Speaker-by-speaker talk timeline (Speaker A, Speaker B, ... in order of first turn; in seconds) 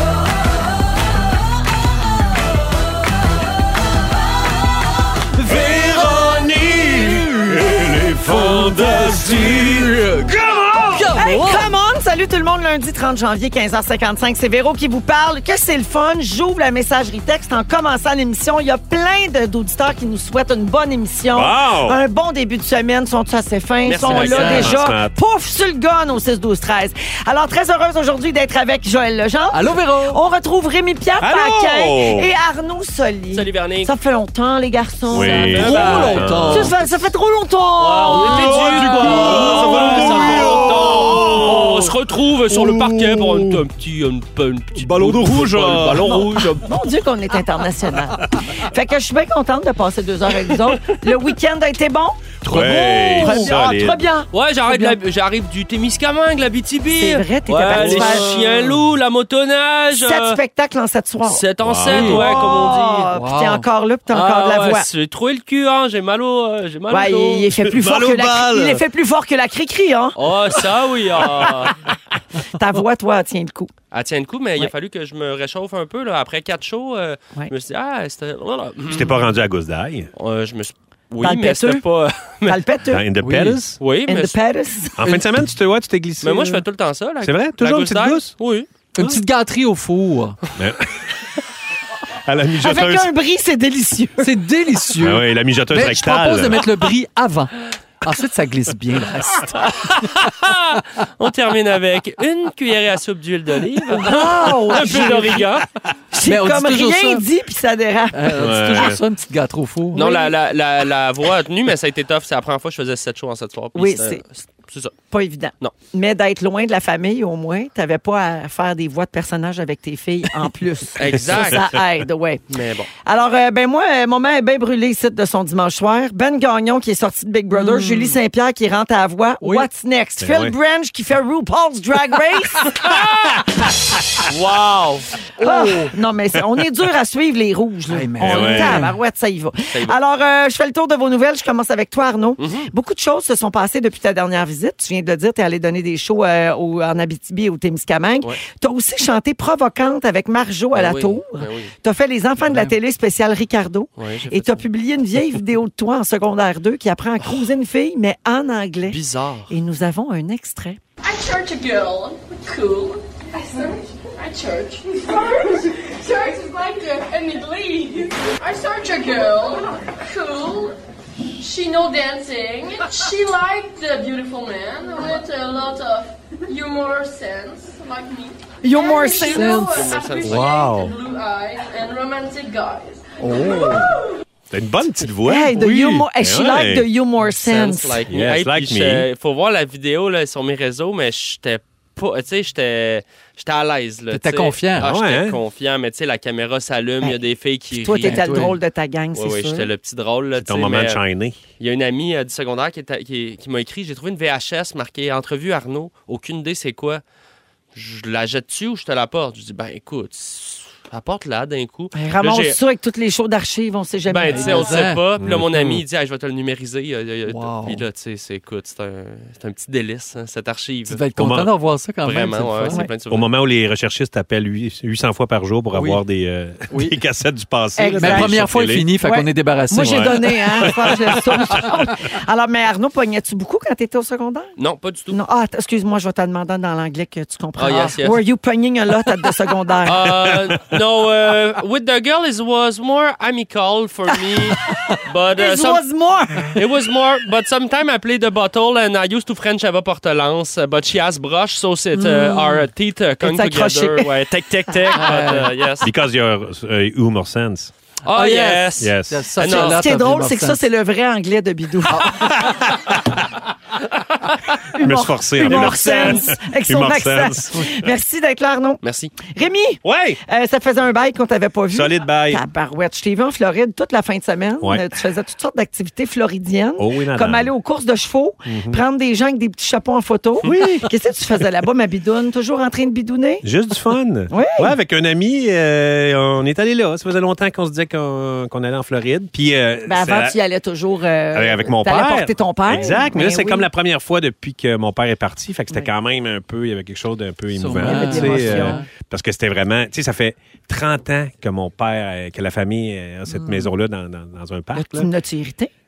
Speaker A: 5.4-11.2, 21.3-22.0, 24.4-25.1, 31.2-32.3, 35.1-36.7, 38.1-42.0, 42.5-43.6, 44.8-46.4, 52.4-54.1, 57.7-58.2, 61.6-62.2, 67.6-68.8, 71.5-71.8, 78.8-80.1, 82.9-83.8, 85.0-86.7, 87.2-88.3, 89.0-89.2, 90.5-91.2, 92.2-93.1, 95.0-96.7, 108.3-109.0, 121.1-121.8, 130.2-130.6, 138.2-138.9, 180.2-180.9, 184.5-186.9, 188.1-189.1, 194.8-195.4, 200.3-201.4, 215.2-215.8, 221.2-221.5, 223.1-228.9, 229.8-231.7, 255.8-257.7, 258.8-259.3, 262.4-263.1, 264.8-267.9, 269.8-270.2, 271.7-272.4, 276.8-277.5, 278.4-278.8, 280.4-280.9, 283.4-290.4, 291.3-305.1
Speaker B: 7.5-11.7, 24.1-24.7, 29.5-30.2, 35.5-36.8, 52.4-53.3, 61.9-62.2, 63.1-63.6, 83.2-83.6, 89.0-90.4, 94.2-99.7, 104.0-105.3, 106.2-107.3, 108.1-110.2, 127.5-128.2, 129.4-129.7, 135.3-135.9, 137.9-139.0, 152.4-152.7, 179.2-179.9, 183.2-183.8, 194.1-194.9, 198.0-198.6, 214.3-215.0, 217.3-217.8, 220.9-222.8, 225.7-226.0, 226.7-227.0, 228.0-230.8, 254.9-255.5, 258.1-260.6, 261.9-262.4, 297.5-298.9, 303.3-303.7
Speaker C: 11.1-40.8, 46.6-55.0, 56.9-58.7, 59.9-64.9, 66.9-70.2, 72.4-73.7, 81.2-81.8, 82.4-83.1, 84.0-85.0, 92.6-94.3, 104.0-105.6, 106.1-108.9, 110.0-110.3, 113.7-114.2, 115.1-122.4, 123.0-132.7, 135.4-160.8, 178.6-179.6, 183.4-183.7, 185.2-188.0, 197.7-199.7, 211.9-214.8, 227.8-228.4, 229.0-234.5, 235.1-240.1, 245.3-246.6, 252.0-252.4, 253.2-254.1, 259.4-262.3, 264.7-283.4, 284.3-284.7, 289.9-293.7, 297.7-298.8, 304.7-305.7
Speaker D: 23.8-24.7, 33.3-33.9, 35.2-36.3, 37.8-46.7, 54.3-60.4, 61.2-63.1, 64.1-67.5, 70.2-71.7, 73.9-79.1, 80.2-82.6, 83.8-84.3, 86.2-88.7, 99.8-105.7, 109.9-114.9, 121.0-121.8, 122.5-122.9, 132.7-133.4, 134.2-135.1, 142.4-142.7, 150.7-151.7, 154.0-154.6, 158.9-159.5, 179.7-180.5, 187.3-198.5, 199.1-201.0, 201.6-207.0, 207.7-212.6, 214.1-221.0, 222.0-223.3, 234.6-235.2, 237.6-238.2, 239.8-245.9, 246.5-255.9, 258.0-259.8, 265.4-266.3, 268.8-269.1
Speaker E: 161.0-170.8, 171.4-183.9